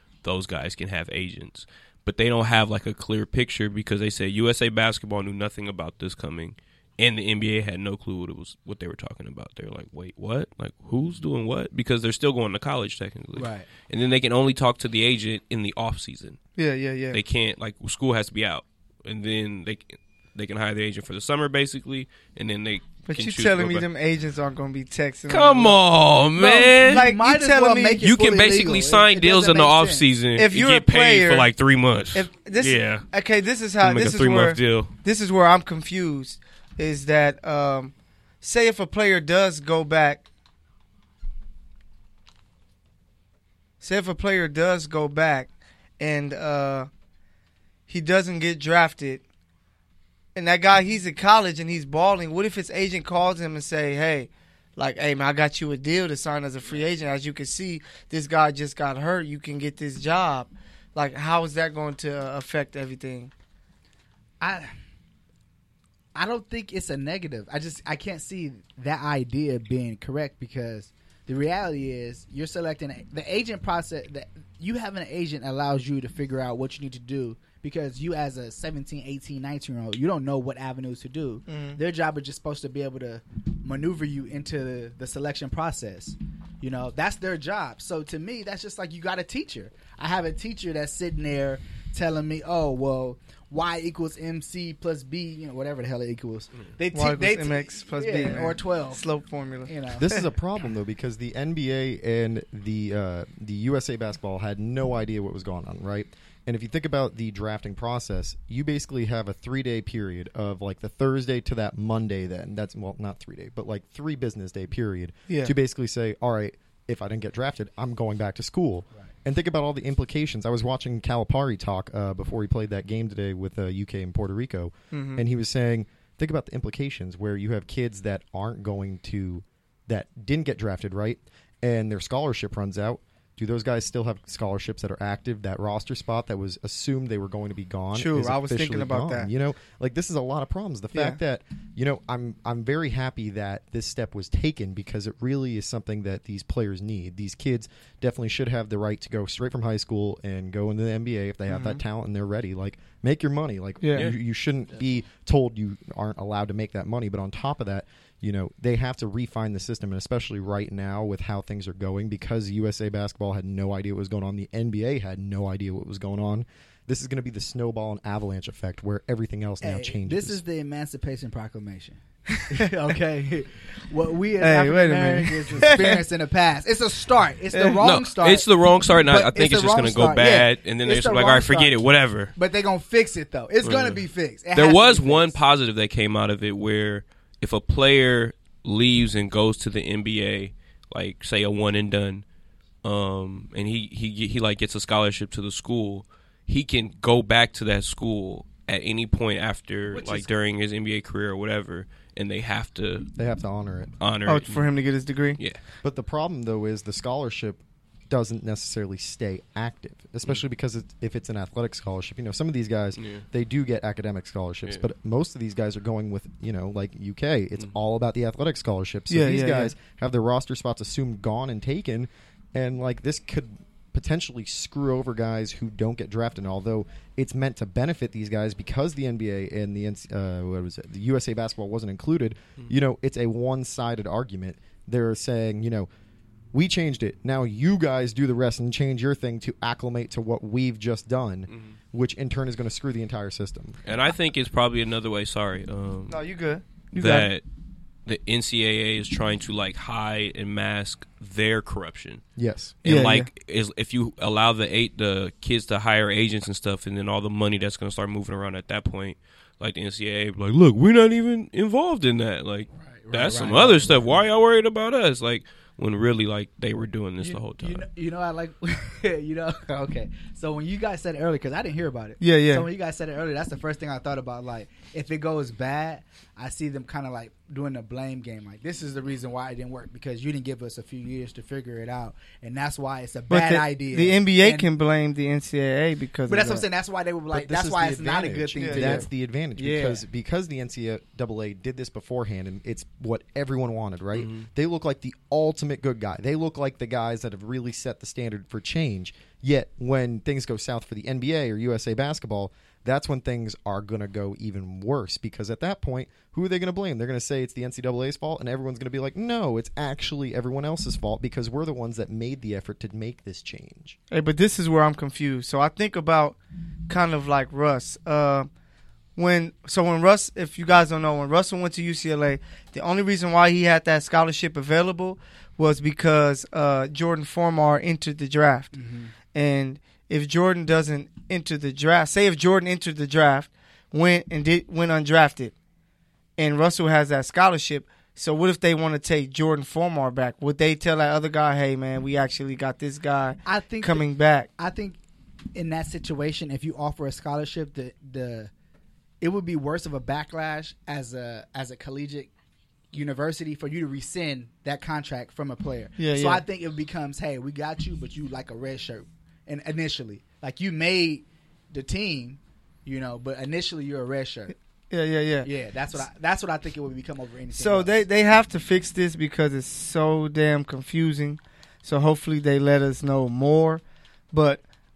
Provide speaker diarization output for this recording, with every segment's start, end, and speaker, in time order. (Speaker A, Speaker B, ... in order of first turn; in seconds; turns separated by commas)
Speaker A: 0.2-16.4, Speaker B: 13.3-13.7, Speaker C: 16.6-17.2, Speaker A: 17.1-23.9, Speaker C: 23.1-25.8, Speaker A: 25.3-27.1, Speaker B: 26.4-30.1, Speaker C: 26.9-28.0, Speaker A: 28.0-33.1, Speaker C: 30.4-31.5, Speaker C: 32.1-40.2, Speaker A: 33.8-34.9, Speaker C: 43.8-46.9, Speaker C: 47.9-49.2, Speaker C: 50.4-63.3, Speaker B: 64.4-64.7, Speaker B: 66.2-99.0, Speaker C: 81.5-81.8, Speaker C: 96.9-100.2, Speaker B: 99.7-100.2, Speaker D: 99.9-170.4, Speaker C: 124.9-125.2, Speaker C: 137.9-139.3, Speaker C: 151.5-151.8, Speaker C: 153.8-154.1, Speaker B: 169.6-178.5, Speaker C: 174.4-176.0, Speaker C: 177.5-177.8, Speaker A: 177.8-182.3, Speaker B: 179.1-181.8, Speaker B: 182.3-185.4, Speaker A: 183.6-184.0, Speaker A: 184.5-192.2, Speaker A: 192.8-203.1, Speaker B: 199.9-200.3, Speaker D: 203.2-203.9, Speaker A: 204.0-204.7, Speaker C: 204.3-205.4, Speaker D: 205.8-235.9, Speaker A: 213.0-213.2, Speaker C: 219.1-219.7, Speaker D: 236.5-243.8, Speaker A: 241.5-241.8, Speaker A: 243.9-246.2, Speaker C: 246.1-247.3, Speaker A: 246.9-247.4, Speaker A: 248.1-252.2, Speaker D: 252.4-252.8, Speaker A: 252.8-267.9, Speaker C: 252.8-253.3, Speaker B: 262.8-264.2, Speaker B: 267.2-284.7, Speaker C: 272.2-272.7, Speaker C: 283.3-286.6, Speaker B: 286.3-290.0, Speaker D: 287.3-314.0, Speaker C: 288.6-289.0, Speaker A: 294.2-294.5, Speaker C: 314.1-316.4, Speaker C: 316.9-318.5, Speaker C: 319.2-328.7, Speaker B: 328.7-329.1, Speaker C: 329.3-335.5, Speaker C: 336.4-344.5, Speaker B: 343.4-344.1, Speaker B: 344.6-345.0, Speaker B: 345.6-348.5, Speaker B: 349.2-352.3, Speaker B: 352.9-364.5, Speaker C: 356.0-356.4, Speaker C: 364.9-365.5, Speaker B: 365.4-368.0, Speaker C: 367.5-374.6